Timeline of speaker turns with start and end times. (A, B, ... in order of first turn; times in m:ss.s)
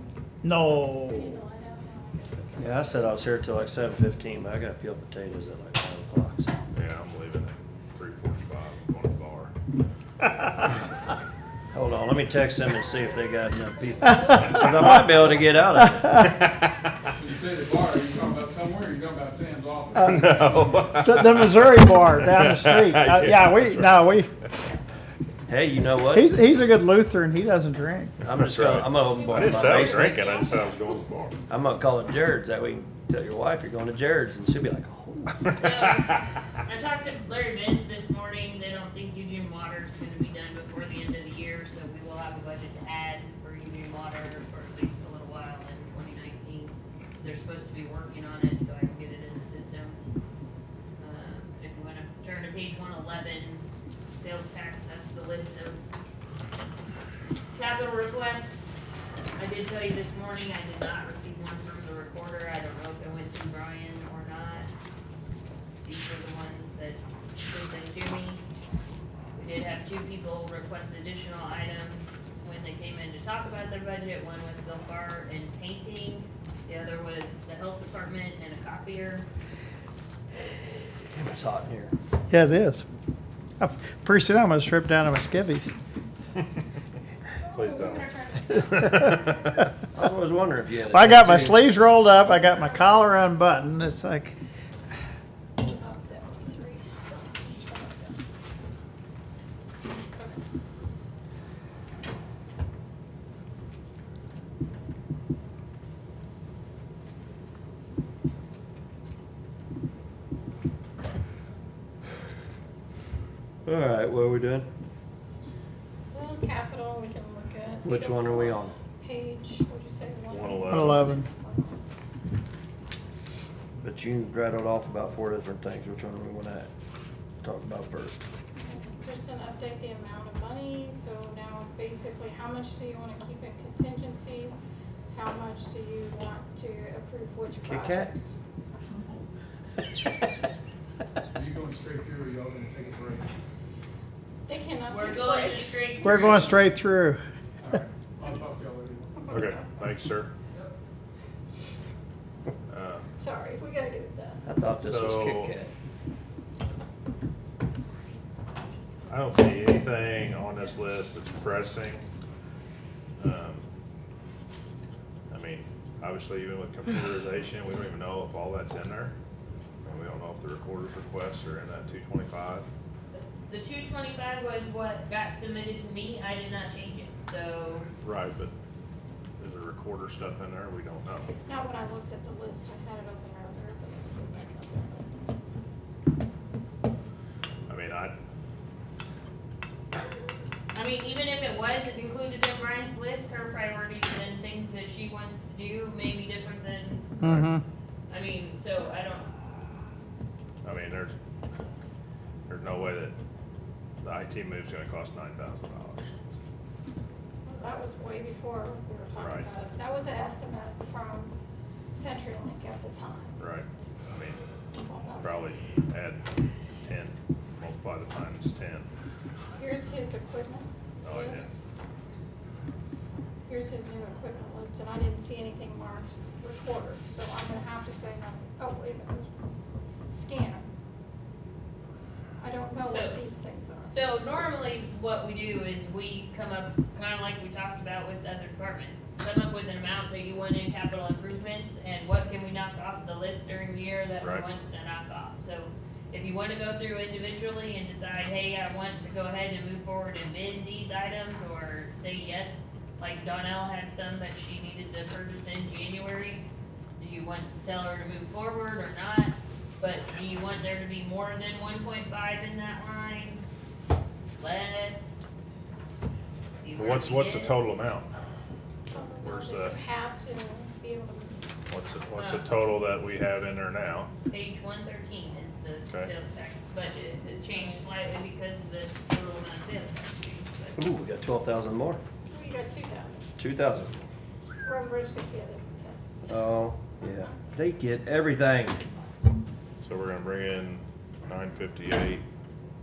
0:00.4-0:01.4 A
0:01.1-0:03.1 B
0:02.6-0:06.6 C
0:06.7-0:09.5 D
0:11.7-0:16.2 C
0:14.3-0:15.0 A
0:15.7-0:16.3 A
0:16.4-0:16.7 D
0:17.2-0:21.0 E
0:20.0-0:20.3 A
0:20.0-0:21.6 D
0:21.0-0:24.3 A
0:22.2-0:24.1 D
0:25.5-0:26.3 C
0:26.1-0:28.1 A
0:28.2-0:30.3 C
0:28.2-0:31.4 D
0:29.4-0:30.6 F
0:31.5-0:35.4 C
0:35.6-0:50.0 F
0:51.0-0:53.6 F
0:54.2-0:55.8 F
0:57.5-0:58.8 F
0:59.4-1:04.7 F
1:05.8-1:08.4 F
1:09.3-1:19.2 F
1:21.1-1:21.9 C
1:22.3-1:22.8 A
1:23.6-1:25.7 A
1:27.4-1:28.9 B
1:27.5-1:29.3 D
1:28.7-1:29.3 A
1:29.9-1:31.6 C
1:30.9-1:34.3 A
1:32.2-1:33.0 B
1:35.6-1:38.2 B
1:40.1-1:40.4 B
1:53.6-1:54.7 C
1:56.1-2:01.8 B
1:57.8-1:58.8 C
2:00.3-2:01.0 D
2:00.7-2:01.3 A
2:03.8-2:06.7 C
2:07.4-2:08.2 C
2:08.6-2:14.5 B
2:15.1-2:18.3 B
2:17.6-2:18.1 C
2:21.3-2:23.3 E
2:24.5-2:25.8 B
2:24.9-2:26.6 F
2:26.0-2:27.2 A
2:27.6-2:29.3 E
2:29.3-2:30.3 D
2:32.7-2:33.0 D
2:33.2-2:34.5 B
2:34.4-2:35.7 C
2:34.8-2:35.5 D
2:39.1-2:42.1 D
2:43.2-2:43.6 D
2:45.3-2:49.1 D
2:49.8-2:52.7 D
2:53.1-2:57.9 F
2:58.0-2:58.5 D
2:59.4-3:01.3 D
3:01.5-3:05.2 B
3:07.7-3:08.1 D
3:10.7-3:17.1 F
3:17.2-3:17.6 A
3:18.1-3:19.3 F
3:20.6-3:21.1 D
3:22.5-3:23.1 D
3:24.0-3:26.3 D
3:27.5-3:31.3 B
3:29.2-3:29.5 D
3:31.9-3:33.4 B
3:33.4-3:34.4 D
3:34.7-3:35.6 B
3:35.2-3:36.3 D
3:36.9-3:38.9 D
3:39.6-3:41.4 B
3:41.0-3:41.5 D
3:43.5-3:49.3 B
3:50.1-3:50.7 B
3:52.4-3:53.9 B
3:52.8-3:53.2 F
3:53.8-4:16.4 F
4:04.2-4:04.4 D
4:17.0-4:23.4 F
4:24.4-4:25.1 F
4:26.6-4:27.6 F
4:26.8-4:28.1 D
4:28.9-4:31.5 B
4:29.2-4:29.8 D
4:31.7-4:34.1 D
4:32.1-4:32.4 F
4:34.3-4:40.8 F
4:40.8-4:42.0 C
4:42.3-4:43.3 B
4:43.4-4:43.9 C
4:44.6-4:46.0 B
4:46.3-4:48.8 C
4:49.8-4:52.2 D